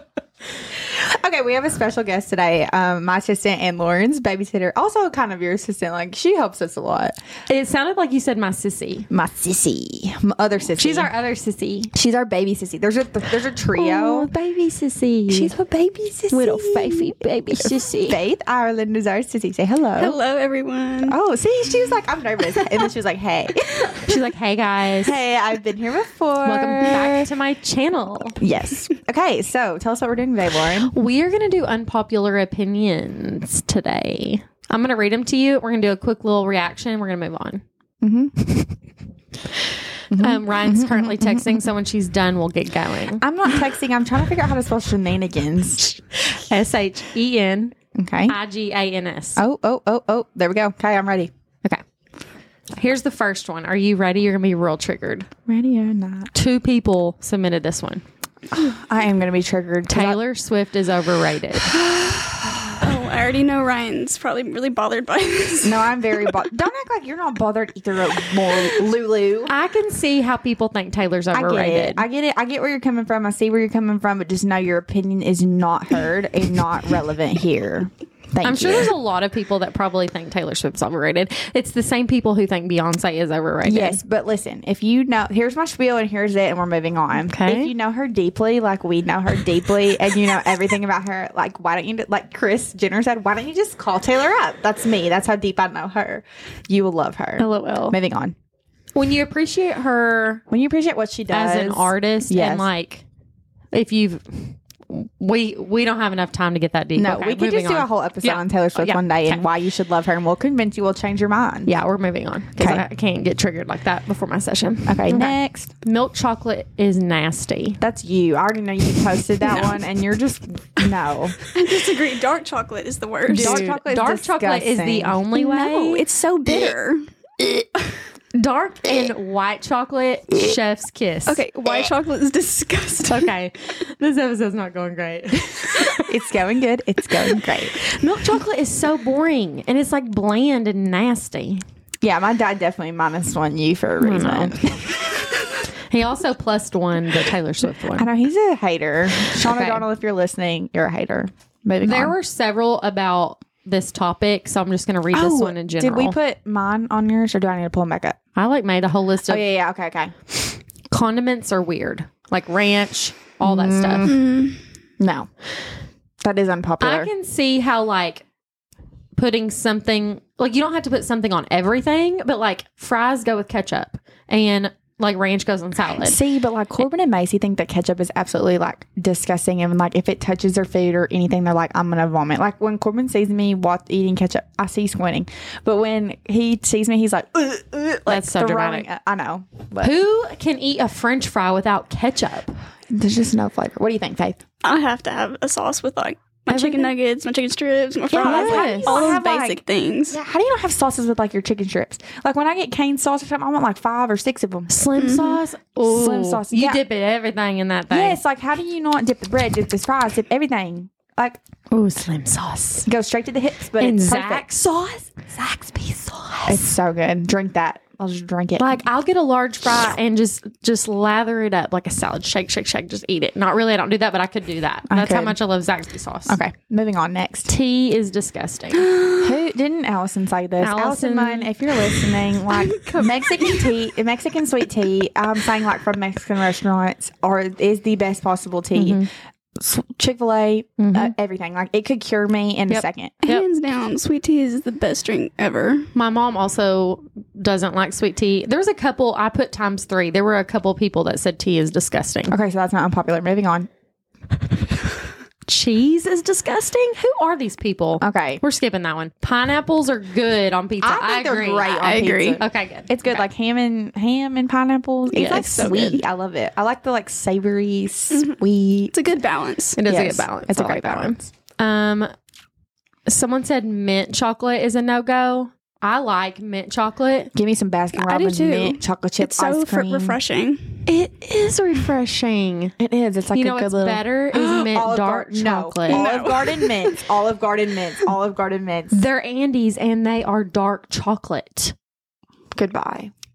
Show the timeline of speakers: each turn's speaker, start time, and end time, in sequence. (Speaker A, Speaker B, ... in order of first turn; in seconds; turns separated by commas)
Speaker A: 0.7-7.1, Speaker B: 7.5-9.1, Speaker A: 9.1-11.1, Speaker B: 10.8-11.9, Speaker A: 11.9-14.3, Speaker B: 13.7-15.6, Speaker A: 15.3-17.2, Speaker B: 16.3-18.2, Speaker A: 18.1-20.2, Speaker C: 20.0-21.2, Speaker A: 21.1-24.0, Speaker B: 24.0-25.2, Speaker A: 25.0-27.2, Speaker B: 26.4-28.4, Speaker A: 28.4-30.9, Speaker B: 30.7-37.6, Speaker A: 38.0-38.5, Speaker B: 39.5-43.4, Speaker A: 40.1-41.6, Speaker A: 43.2-45.9, Speaker B: 45.9-49.4, Speaker A: 48.0-48.4, Speaker A: 49.4-51.3, Speaker B: 52.7-55.3, Speaker A: 55.5-56.3, Speaker B: 56.3-58.0, Speaker A: 58.5-60.2, Speaker B: 59.9-61.8, Speaker A: 61.7-62.8, Speaker C: 62.8-66.4, Speaker A: 65.6-69.5, Speaker B: 69.5-72.1, Speaker A: 71.3-78.9, Speaker B: 78.4-84.0, Speaker A: 83.6-98.3, Speaker B: 87.1-87.7, Speaker B: 97.4-98.0, Speaker B: 99.0-100.4, Speaker A: 100.5-102.7, Speaker B: 101.3-103.0, Speaker B: 103.7-109.4, Speaker A: 107.0-111.7, Speaker B: 111.7-117.8, Speaker A: 112.6-112.8, Speaker A: 114.9-115.7, Speaker A: 117.8-121.4, Speaker C: 119.5-119.8, Speaker C: 121.5-123.8, Speaker B: 123.3-126.1, Speaker A: 123.3-125.2, Speaker C: 125.3-127.1, Speaker B: 128.3-131.4, Speaker C: 131.3-133.3, Speaker B: 133.1-136.1, Speaker A: 136.1-137.8, Speaker B: 137.2-141.6, Speaker A: 142.0-145.0, Speaker B: 144.0-144.6, Speaker B: 145.9-148.1, Speaker A: 147.9-152.2, Speaker B: 149.3-149.9, Speaker B: 151.8-156.2, Speaker A: 155.1-158.2, Speaker B: 158.4-159.5, Speaker A: 159.2-160.1, Speaker B: 160.9-164.1, Speaker A: 163.4-164.3, Speaker C: 164.0-164.6, Speaker A: 165.0-165.3, Speaker A: 166.2-167.1, Speaker B: 166.8-168.2, Speaker B: 169.2-176.2, Speaker A: 175.9-190.0, Speaker B: 188.1-188.9, Speaker B: 189.8-192.5, Speaker A: 192.9-194.4, Speaker C: 194.6-200.2, Speaker B: 196.5-196.9, Speaker A: 198.1-204.7, Speaker B: 198.1-199.2, Speaker B: 204.7-208.2, Speaker C: 204.9-205.4, Speaker A: 205.8-206.8, Speaker A: 207.9-211.4, Speaker B: 211.7-212.9, Speaker A: 212.8-214.5, Speaker B: 213.8-216.7, Speaker A: 216.5-218.8, Speaker B: 218.6-226.4, Speaker A: 224.9-225.4, Speaker A: 226.3-227.5, Speaker B: 227.5-228.9, Speaker C: 228.8-229.4, Speaker A: 229.1-239.1, Speaker B: 230.6-232.1, Speaker C: 232.5-233.9, Speaker B: 238.8-239.1, Speaker A: 239.6-243.2, Speaker B: 240.8-241.1, Speaker B: 242.7-243.5, Speaker C: 243.2-245.9, Speaker B: 245.9-252.3, Speaker A: 252.3-253.7, Speaker B: 255.5-263.3, Speaker A: 258.0-258.4, Speaker A: 260.8-268.9, Speaker C: 261.8-262.4, Speaker C: 265.1-266.1, Speaker B: 265.2-265.7, Speaker C: 268.1-268.4, Speaker C: 268.9-269.8, Speaker B: 269.8-272.1, Speaker A: 269.9-271.3, Speaker B: 273.1-277.3, Speaker A: 277.3-280.2, Speaker C: 277.9-280.9, Speaker B: 280.9-282.8, Speaker A: 282.8-289.0, Speaker B: 283.3-286.1, Speaker C: 285.9-287.1, Speaker B: 288.9-291.7, Speaker A: 292.6-293.1